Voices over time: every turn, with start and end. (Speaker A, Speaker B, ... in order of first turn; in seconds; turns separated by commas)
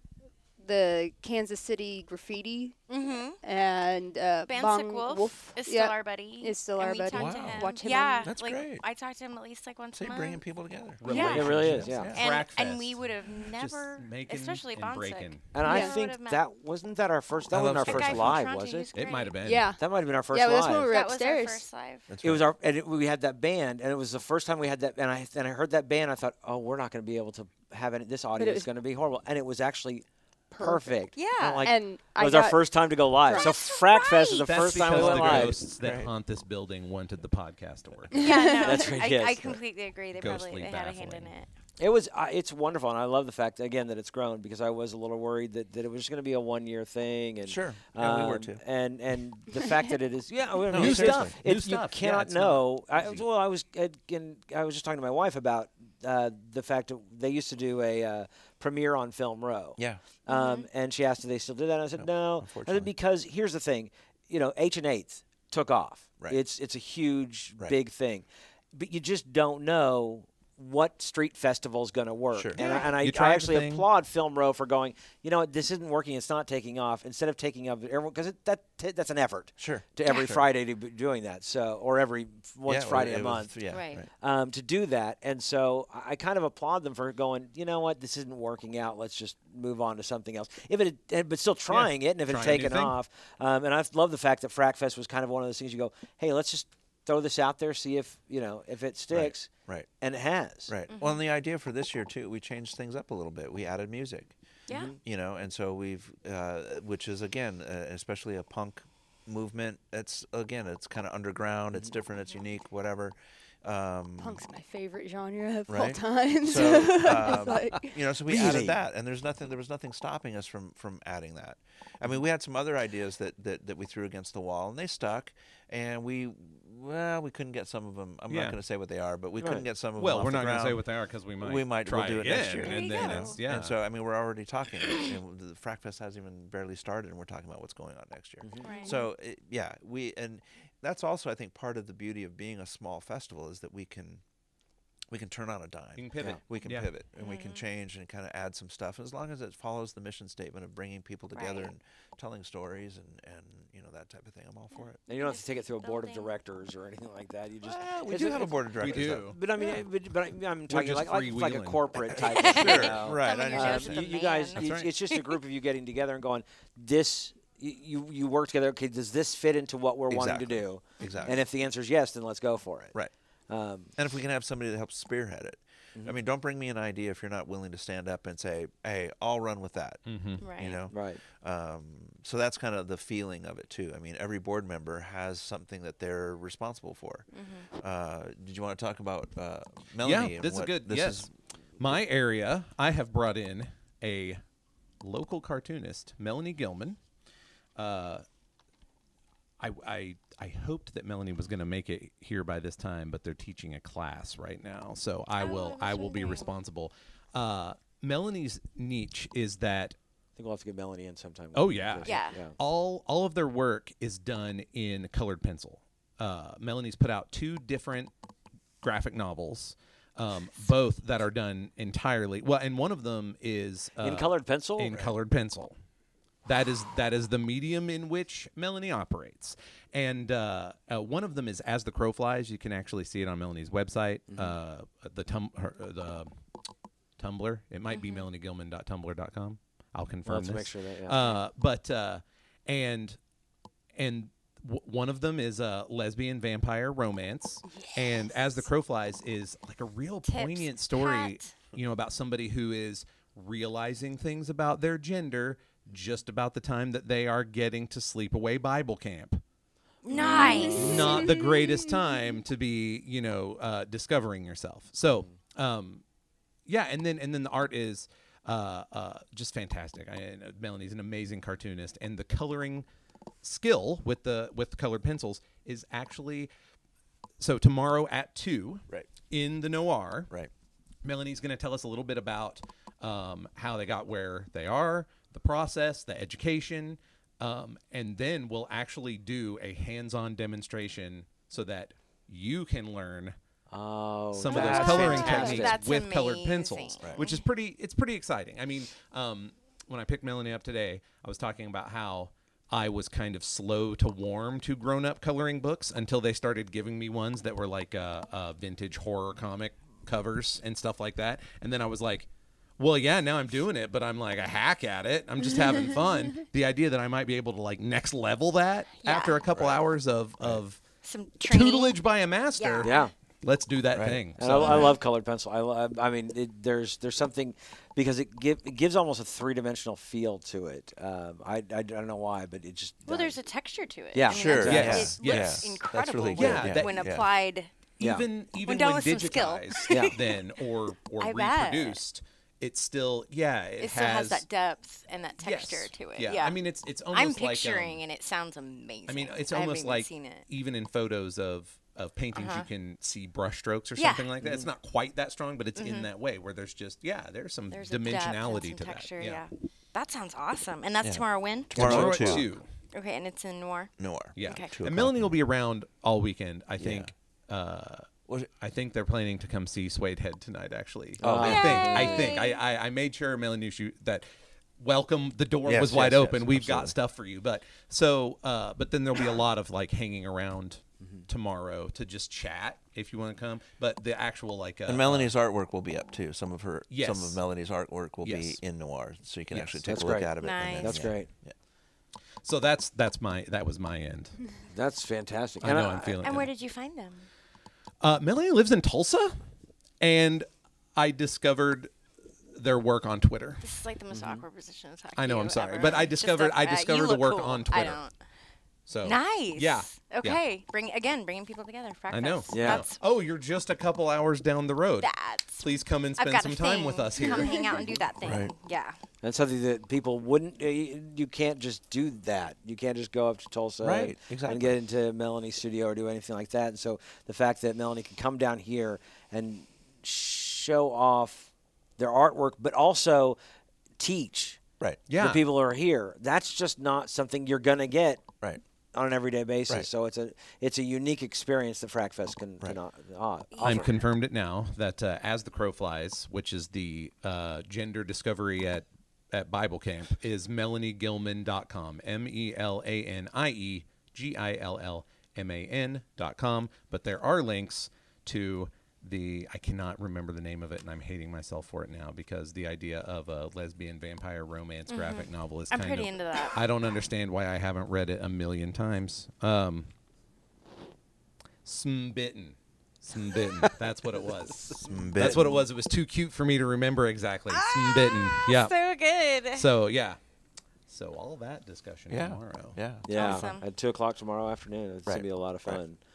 Speaker A: 0.6-2.8, Speaker B: 2.9-3.4, Speaker A: 3.4-8.3, Speaker B: 4.5-10.4, Speaker C: 7.1-7.7, Speaker C: 8.2-8.8, Speaker C: 9.9-12.2, Speaker D: 11.0-15.5, Speaker B: 11.0-11.5, Speaker E: 11.3-12.1, Speaker B: 12.1-16.4, Speaker E: 15.5-18.9, Speaker A: 15.6-16.0, Speaker C: 17.5-18.4, Speaker B: 17.8-19.4, Speaker D: 18.9-19.7, Speaker A: 19.4-21.6, Speaker E: 19.8-20.9, Speaker B: 20.9-22.1, Speaker C: 22.1-22.4, Speaker E: 22.2-35.6, Speaker A: 28.4-28.7, Speaker A: 30.5-31.0, Speaker B: 31.1-31.7, Speaker A: 31.6-32.7, Speaker A: 33.2-33.5, Speaker B: 33.3-35.1, Speaker D: 34.4-38.3, Speaker C: 35.1-36.1, Speaker B: 38.1-41.5, Speaker A: 38.1-38.9, Speaker E: 38.6-39.6, Speaker D: 40.1-41.3, Speaker E: 41.8-83.5, Speaker C: 47.4-48.6, Speaker C: 50.7-51.4, Speaker D: 50.7-53.2, Speaker C: 59.8-60.0, Speaker B: 60.3-60.7, Speaker C: 62.0-62.9, Speaker C: 72.3-72.7, Speaker B: 72.6-72.9, Speaker D: 72.8-73.9, Speaker C: 79.6-80.5, Speaker C: 82.7-84.1, Speaker B: 83.7-84.0, Speaker E: 84.2-100.7, Speaker D: 91.7-93.0, Speaker C: 99.1-99.9, Speaker C: 100.7-104.3, Speaker B: 100.9-101.2, Speaker E: 104.7-105.0, Speaker C: 105.0-114.4, Speaker A: 114.2-118.0, Speaker C: 115.7-130.8, Speaker E: 118.2-118.8, Speaker D: 128.3-128.6, Speaker E: 129.4-129.7, Speaker D: 130.0-133.8, Speaker C: 131.4-144.2, Speaker B: 132.6-133.4, Speaker E: 138.4-138.9, Speaker B: 138.6-139.0, Speaker C: 145.1-155.0, Speaker D: 146.0-146.9, Speaker B: 147.2-147.6, Speaker B: 151.3-151.7, Speaker B: 155.0-156.3, Speaker E: 155.1-172.9, Speaker C: 157.6-159.3, Speaker D: 158.8-159.4, Speaker D: 160.7-162.1, Speaker C: 162.1-164.1, Speaker B: 162.2-165.3, Speaker D: 164.5-164.9, Speaker C: 170.1-171.4, Speaker B: 171.0-171.3, Speaker E: 173.5-173.9, Speaker C: 174.0-180.0, Speaker D: 180.1-180.4, Speaker B: 180.4-180.8, Speaker C: 180.5-187.3, Speaker E: 180.9-181.2, Speaker B: 187.3-187.7, Speaker C: 187.8-191.3, Speaker D: 190.0-194.4, Speaker D: 195.0-197.0, Speaker D: 197.8-198.2, Speaker D: 199.6-209.9, Speaker B: 205.4-206.5, Speaker E: 210.3-212.6, Speaker D: 211.5-218.1, Speaker B: 212.0-212.4, Speaker D: 218.8-225.7, Speaker E: 224.0-224.9, Speaker D: 226.4-236.3, Speaker E: 234.3-234.5, Speaker D: 237.2-243.2, Speaker B: 237.9-238.3, Speaker E: 240.2-241.3, Speaker D: 243.9-259.4, Speaker B: 247.7-248.5, Speaker B: 250.2-251.5, Speaker B: 260.0-261.3, Speaker A: 260.3-261.5, Speaker D: 260.6-266.0, Speaker D: 266.6-272.9, Speaker D: 273.4-276.5, Speaker D: 277.4-280.3, Speaker D: 281.0-293.4, Speaker E: 293.7-295.8, Speaker D: 294.3-320.8, Speaker B: 294.5-297.4, Speaker B: 319.0-319.4, Speaker C: 319.5-319.8, Speaker B: 321.0-322.0, Speaker D: 321.4-324.9, Speaker B: 322.6-323.1, Speaker E: 322.8-323.1, Speaker C: 323.9-324.2, Speaker E: 324.4-333.4, Speaker B: 324.6-325.0, Speaker B: 333.1-337.7, Speaker E: 334.1-335.1, Speaker C: 334.3-337.3, Speaker D: 334.5-335.7, Speaker D: 336.3-337.2, Speaker E: 338.0-338.2, Speaker D: 338.0-344.4, Speaker B: 338.6-340.5, Speaker E: 339.9-340.1, Speaker B: 341.2-342.0, Speaker B: 343.8-350.5, Speaker D: 345.4-348.0, Speaker D: 349.1-359.4, Speaker B: 352.3-352.7, Speaker B: 354.0-354.3, Speaker B: 355.8-356.1, Speaker B: 357.7-362.4, Speaker C: 361.0-362.5, Speaker D: 361.7-362.7, Speaker E: 361.8-362.1, Speaker B: 362.9-364.7, Speaker C: 364.0-365.3, Speaker D: 364.4-368.1, Speaker C: 366.8-367.1, Speaker D: 368.6-374.2, Speaker E: 371.2-372.3, Speaker C: 371.2-371.6, Speaker B: 371.4-372.6, Speaker D: 374.8-385.3, Speaker C: 375.6-376.9, Speaker C: 384.9-391.5, Speaker D: 386.9-387.4, Speaker D: 388.2-388.6, Speaker D: 389.5-389.8, Speaker E: 389.8-391.3, Speaker B: 390.4-391.1, Speaker D: 392.4-394.4, Speaker E: 394.7-396.2, Speaker D: 395.6-396.5, Speaker B: 396.2-397.3, Speaker D: 398.0-399.4, Speaker D: 400.0-401.9, Speaker D: 402.5-403.6, Speaker B: 403.6-408.1, Speaker E: 404.1-404.4, Speaker D: 405.1-408.0, Speaker D: 408.9-410.4, Speaker B: 409.0-413.0, Speaker D: 412.1-417.7, Speaker E: 412.5-412.8, Speaker B: 415.0-419.0, Speaker A: 417.3-417.9, Speaker C: 418.2-418.5, Speaker E: 419.2-433.4, Speaker C: 423.8-424.8, Speaker E: 434.0-434.6, Speaker D: 435.1-435.4, Speaker E: 435.1-438.2, Speaker E: 438.9-443.9, Speaker B: 443.5-444.0, Speaker D: 443.6-469.9, Speaker B: 464.9-466.6, Speaker D: 471.6-478.7, Speaker E: 473.5-475.6, Speaker C: 474.9-475.6, Speaker B: 477.5-479.7, Speaker D: 479.5-480.2, Speaker D: 480.9-482.8, Speaker C: 482.1-483.4, Speaker E: 483.1-486.0, Speaker B: 483.1-483.6, Speaker C: 485.1-485.8